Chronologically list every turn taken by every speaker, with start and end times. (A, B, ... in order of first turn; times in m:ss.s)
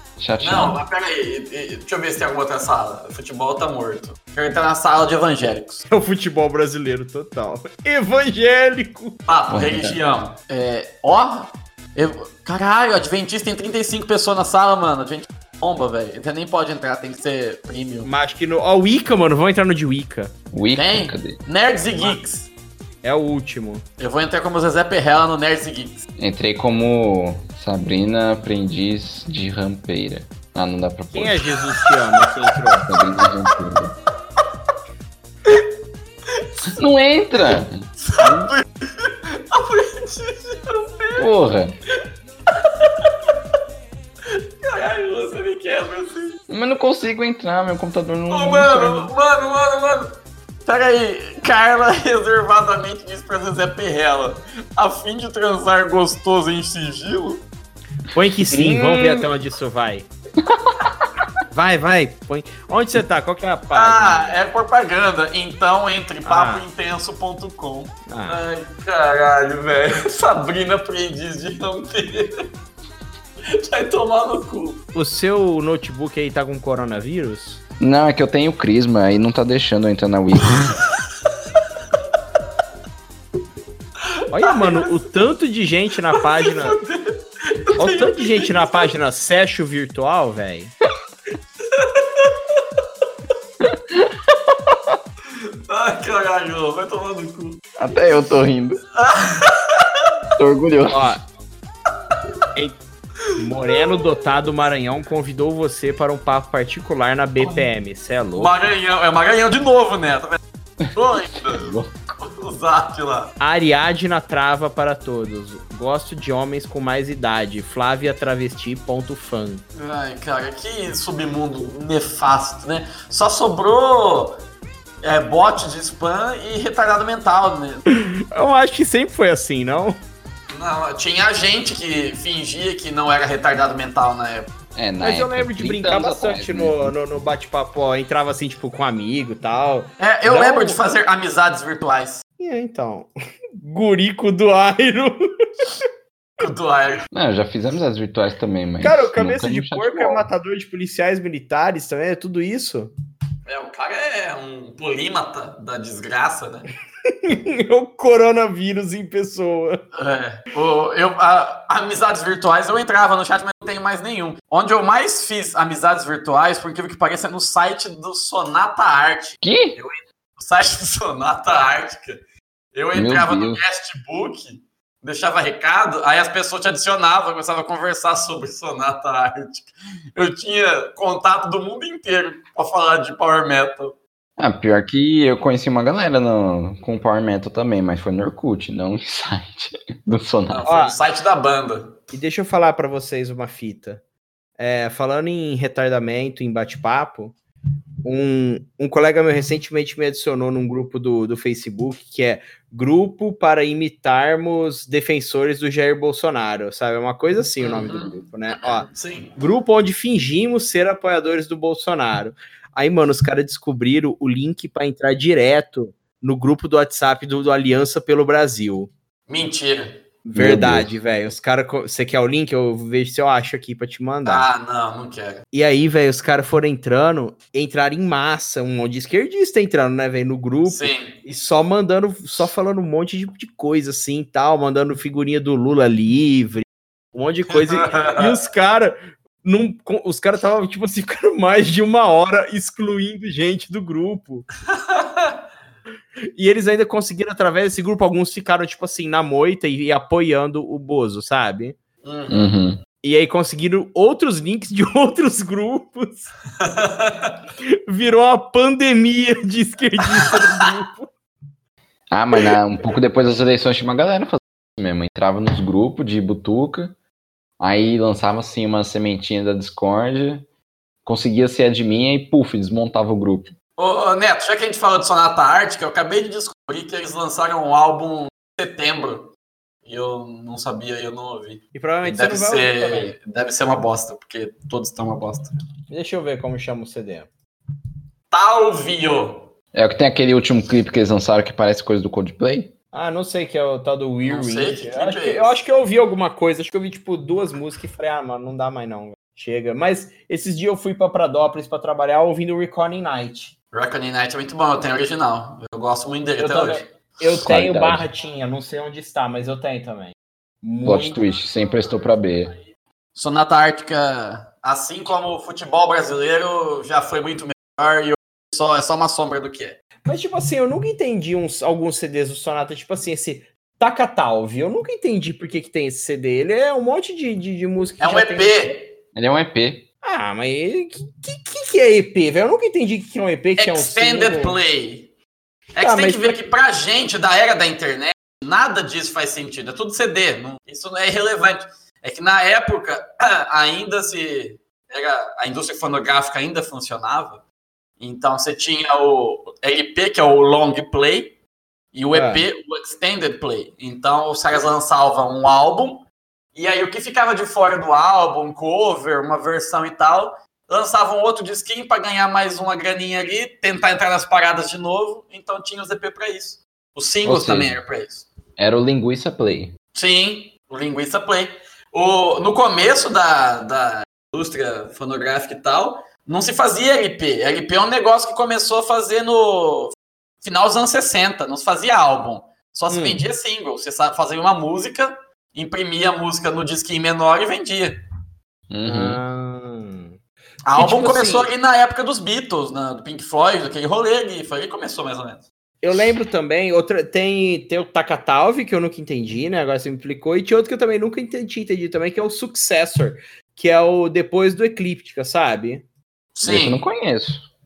0:00.2-0:00.8 A
0:00.4-0:05.8 B
0:05.9-0:09.2 C
0:09.3-0:18.1 B
0:09.5-0:10.0 A
0:18.0-0:20.3 C
0:20.5-0:21.4 A
0:20.8-0:22.5 B
0:23.0-0:23.8 C
0:24.0-0:26.0 B
0:26.2-0:31.5 A
0:31.1-0:32.9 C
0:32.9-0:33.9 A
0:36.7-0:38.5 A
0:38.0-0:41.3 B
0:41.2-0:41.8 A
0:42.5-0:43.1 B
0:44.3-0:46.4 B
0:46.5-0:49.1 A
0:48.3-0:50.1 B
0:50.6-0:57.4 B
0:58.1-1:00.1 C
0:58.5-0:59.2 A
1:00.5-1:00.9 A
1:01.5-1:04.4 C
1:03.7-1:12.5 B
1:06.2-1:06.6 C
1:08.1-1:08.4 C
1:13.5-1:14.8 B
1:14.9-1:17.6 C
1:17.8-1:20.8 A
1:24.3-1:26.8 C
1:24.4-1:24.9 B
1:26.4-1:28.9 B
1:27.8-1:30.7 C
1:31.7-1:32.6 B
1:33.6-1:35.0 A
1:35.3-1:37.6 B
1:37.8-1:38.8 A
1:39.0-1:40.0 B
1:40.4-1:41.2 A
1:40.9-1:41.2 C
1:43.4-1:48.5 C
1:48.4-1:50.4 B
1:50.8-1:51.9 A
1:50.9-1:53.3 B
1:53.4-1:59.6 C
1:59.8-2:04.4 B
2:05.0-2:07.8 B
2:07.9-2:10.0 C
2:10.5-2:14.5 B
2:14.8-2:16.9 A
2:15.0-2:20.8 C
2:20.0-2:22.2 B
2:22.4-2:25.7 C
2:26.4-2:27.0 B
2:27.1-2:30.2 A
2:28.8-2:32.9 C
2:33.5-2:36.7 B
2:37.1-2:39.8 C
2:40.0-2:52.2 B
2:49.4-2:49.8 A
2:52.7-3:04.0 B
2:52.9-2:53.6 A
3:04.4-3:10.6 A
3:10.5-3:12.0 B
3:10.6-3:11.0 C
3:12.1-3:14.0 C
3:14.6-3:17.4 C
3:18.0-3:38.9 C
3:27.6-3:29.4 B
3:39.3-3:40.0 B
3:40.2-3:44.5 C
3:40.4-3:40.9 A
3:44.2-3:45.4 B
3:45.5-4:04.5 C
3:50.6-3:51.2 B
3:57.6-3:58.3 B
4:04.7-4:05.4 B
4:06.4-4:11.8 C
4:12.0-4:12.5 B
4:12.3-4:12.8 A
4:13.0-4:16.3 C
4:16.6-4:17.4 B
4:17.6-4:21.1 C
4:22.1-4:26.9 A
4:27.6-4:30.5 A
4:31.0-4:33.5 A
4:33.8-4:39.3 B
4:39.9-4:45.5 B
4:41.8-4:43.1 C
4:45.9-4:47.3 C
4:48.3-4:49.5 B
4:49.7-4:52.7 A
4:52.9-5:03.5 C
4:54.2-4:55.6 B
5:03.7-5:06.9 B
5:06.4-5:11.2 C
5:07.4-5:08.0 A
5:10.8-5:12.5 A
5:13.1-5:19.8 B
5:20.0-5:28.7 C
5:28.0-5:28.9 B
5:29.1-5:29.9 A
5:30.0-5:34.6 C
5:33.6-5:35.1 B
5:35.8-5:47.4 B
5:35.8-5:36.4 C
5:48.0-5:51.4 B
5:51.9-6:08.3 B
5:52.1-5:52.4 C
6:07.2-6:07.8 A
6:08.6-6:09.7 A
6:09.9-6:28.0 B
6:22.9-6:23.2 C
6:28.7-6:29.2 A
6:28.8-6:30.2 C
6:30.6-6:35.4 B
6:30.8-6:31.5 C
6:35.8-6:45.8 C
6:46.4-6:46.8 B
6:46.4-6:47.5 A